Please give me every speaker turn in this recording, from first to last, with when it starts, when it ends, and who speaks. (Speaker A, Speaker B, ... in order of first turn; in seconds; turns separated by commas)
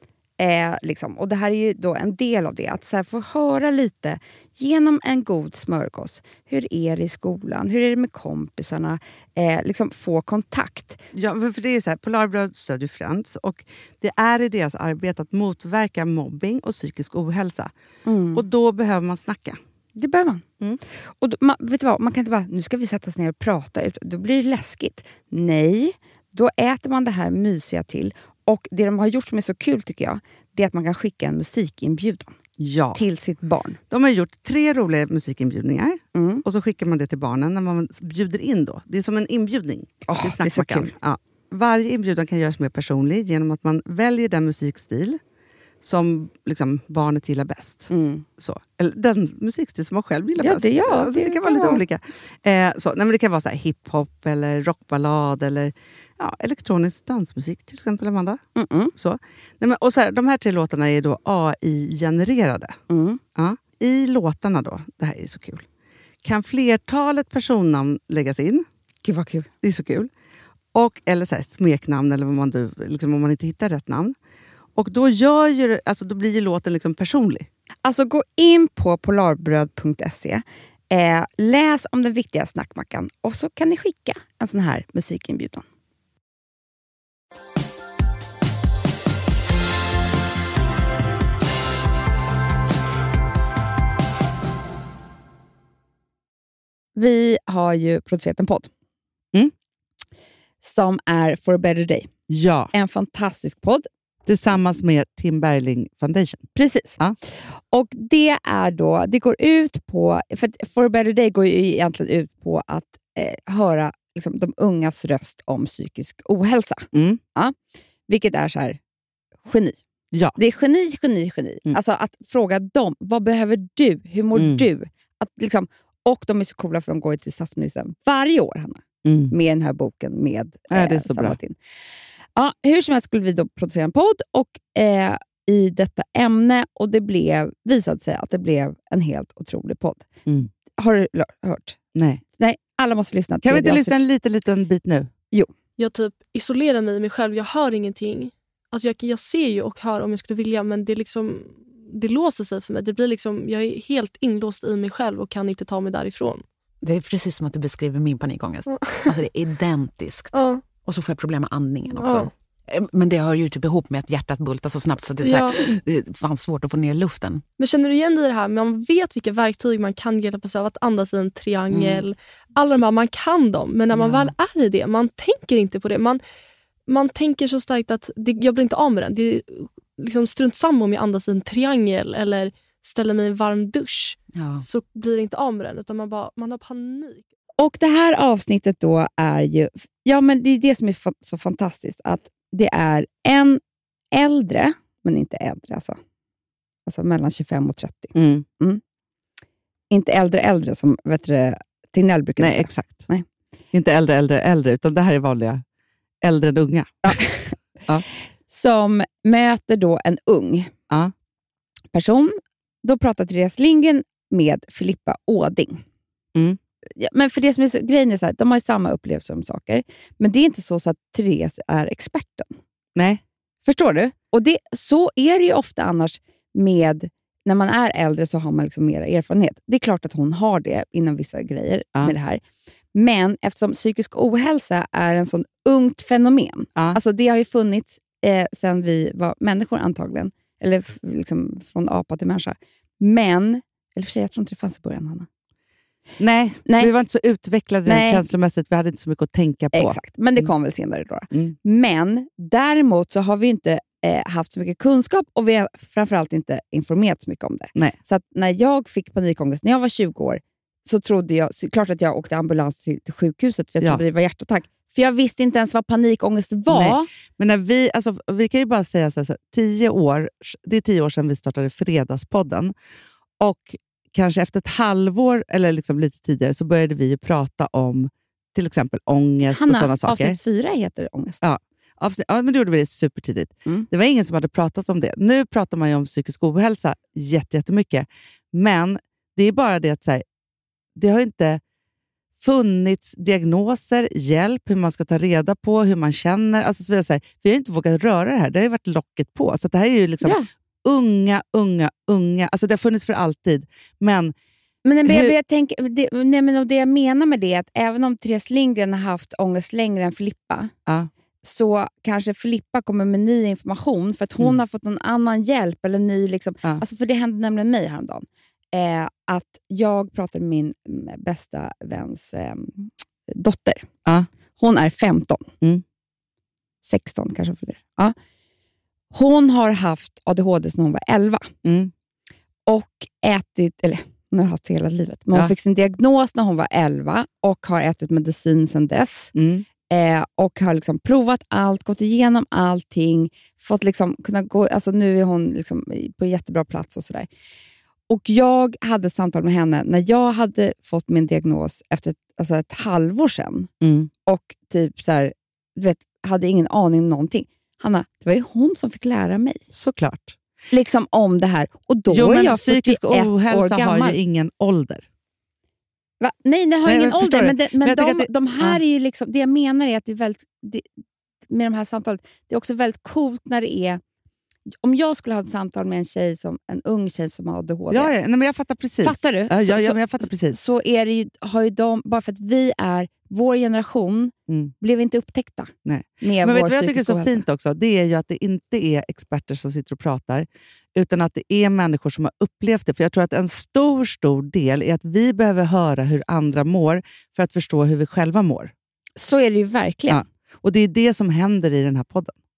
Speaker A: 0.4-11.0, Speaker B: 11.1-17.7, Speaker A: 18.1-18.4, Speaker B: 18.3-19.6, Speaker A: 19.9-20.4, Speaker A: 21.2-32.3, Speaker B: 32.6-33.0, Speaker A: 32.9-33.8, Speaker B: 33.9-45.2, Speaker A: 36.1-36.4, Speaker A: 40.0-40.9, Speaker B: 45.8-58.4, Speaker A: 47.9-48.2, Speaker A: 50.4-51.8, Speaker A: 58.5-58.9, Speaker B: 59.0-62.8, Speaker A: 62.9-63.2, Speaker B: 63.3-65.7, Speaker B: 66.2-68.7, Speaker A: 69.0-69.5, Speaker B: 69.6-70.1, Speaker B: 70.7-74.1, Speaker B: 74.8-77.5, Speaker A: 77.8-85.6, Speaker A: 97.0-98.7, Speaker A: 100.6-102.1, Speaker B: 102.3-102.7, Speaker A: 102.7-103.9, Speaker B: 104.2-106.5, Speaker A: 106.5-107.0, Speaker A: 107.7-117.5, Speaker B: 116.9-117.2, Speaker A: 118.1-118.8, Speaker A: 119.4-119.8, Speaker B: 120.1-120.4, Speaker A: 120.3-131.6, Speaker B: 124.3-124.6, Speaker B: 129.0-129.3, Speaker B: 130.7-131.4, Speaker A: 132.3-140.1, Speaker A: 140.8-141.8, Speaker B: 141.9-142.2, Speaker A: 142.4-143.9, Speaker B: 143.4-145.1, Speaker C: 145.8-156.4, Speaker D: 156.8-167.4, Speaker C: 158.7-159.1, Speaker C: 160.3-160.6, Speaker C: 161.9-162.3, Speaker C: 165.2-165.6, Speaker C: 167.6-176.2, Speaker D: 171.7-172.0, Speaker D: 173.9-174.3, Speaker C: 176.9-187.2, Speaker D: 184.3-184.6, Speaker A: 187.6-193.6, Speaker A: 194.1-196.0, Speaker A: 196.8-198.8, Speaker B: 198.1-198.4, Speaker A: 199.9-203.2, Speaker B: 202.4-203.1, Speaker B: 203.7-205.6, Speaker B: 206.2-207.2, Speaker A: 207.0-207.5, Speaker A: 208.5-210.7, Speaker A: 211.9-215.8, Speaker A: 216.9-222.5, Speaker B: 222.9-223.2, Speaker A: 223.6-232.4, Speaker A: 232.9-245.3, Speaker B: 246.2-250.5, Speaker A: 246.7-246.9, Speaker A: 247.8-248.2, Speaker A: 249.7-267.1, Speaker B: 266.7-272.7, Speaker B: 273.4-280.4, Speaker A: 279.5-281.4, Speaker B: 281.4-290.2, Speaker B: 290.9-291.6, Speaker B: 292.4-304.3, Speaker A: 304.8-310.7, Speaker B: 305.0-305.3, Speaker A: 311.4-323.9, Speaker A: 324.6-325.5, Speaker A: 326.8-328.1, Speaker A: 329.1-331.5, Speaker B: 331.6-331.9, Speaker A: 332.7-339.3, Speaker B: 339.3-339.6, Speaker A: 339.9-347.3, Speaker A: 348.1-353.7, Speaker B: 353.8-354.1, Speaker A: 354.2-359.6, Speaker B: 359.7-360.4, Speaker A: 360.7-364.2, Speaker B: 362.1-365.0, Speaker A: 366.2-370.8, Speaker B: 366.9-368.8, Speaker A: 371.5-374.0, Speaker A: 374.8-378.1, Speaker B: 377.9-380.6, Speaker A: 379.0-387.4, Speaker B: 384.5-384.7, Speaker B: 385.8-398.7, Speaker A: 399.2-400.2, Speaker B: 400.1-402.4